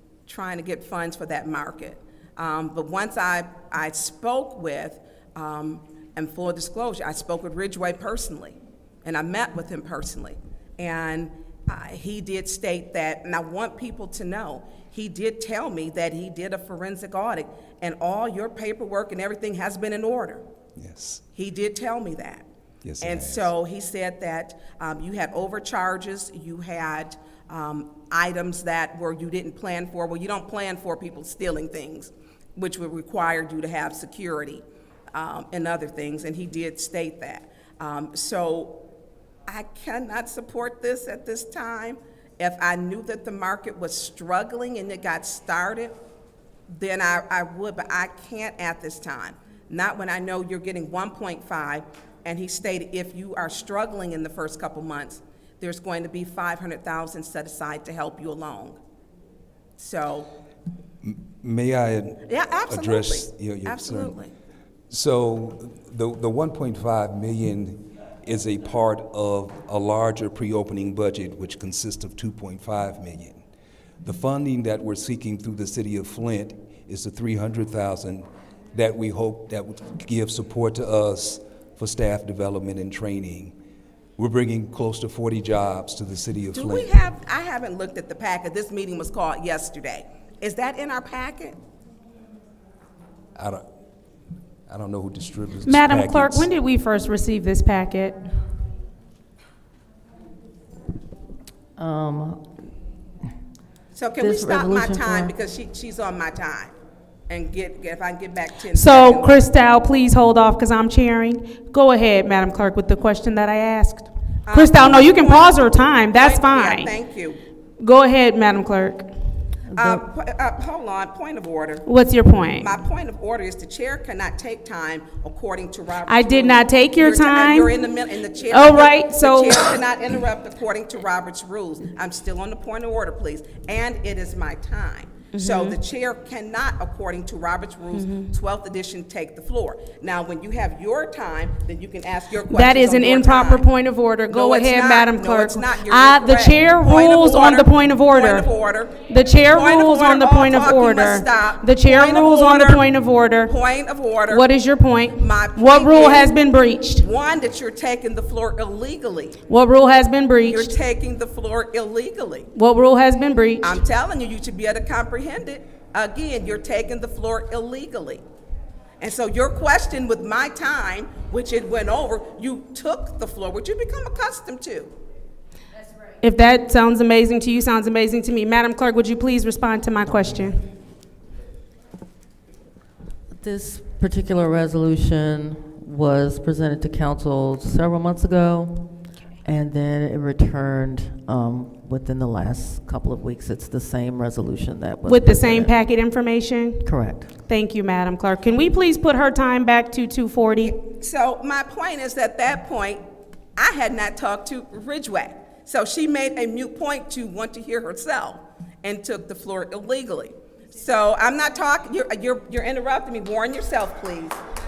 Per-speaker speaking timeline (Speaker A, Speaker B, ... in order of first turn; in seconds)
Speaker A: 0.3-20.4, 21.3-22.4, 23.0-34.6, 35.1-38.7, 39.5-45.9, 46.7-58.8, 59.8-60.3, 62.2-64.3, 86.5-91.5, 103.9-106.7, 107.3-109.3, 114.5-117.4, 119.7-121.8, 122.6-143.7, 144.3-152.8, 153.5-154.5, 155.2-156.3, 157.0-159.4, 160.4-162.5, 163.6-168.2, 169.0-174.9, 200.6-203.0, 203.6-214.4
Speaker B: 20.8-21.2, 22.8-23.5, 61.0-64.1, 64.9-73.4, 74.0-83.5, 84.2-86.9, 93.4-93.6, 94.7-96.5
Speaker C: 95.6-98.2, 108.7-116.9, 117.8-119.1, 121.8-122.7, 126.1-127.7, 128.5-129.8, 135.3-135.8, 137.9-138.3, 142.5-148.5, 149.0-153.5, 154.3-157.0, 159.5-160.7, 162.5-163.8, 176.2-180.7, 195.0-196.9, 197.4-200.7
Speaker D: 101.8-102.4, 104.2-105.3, 119.7-120.0, 183.3-195.7, 196.8-197.3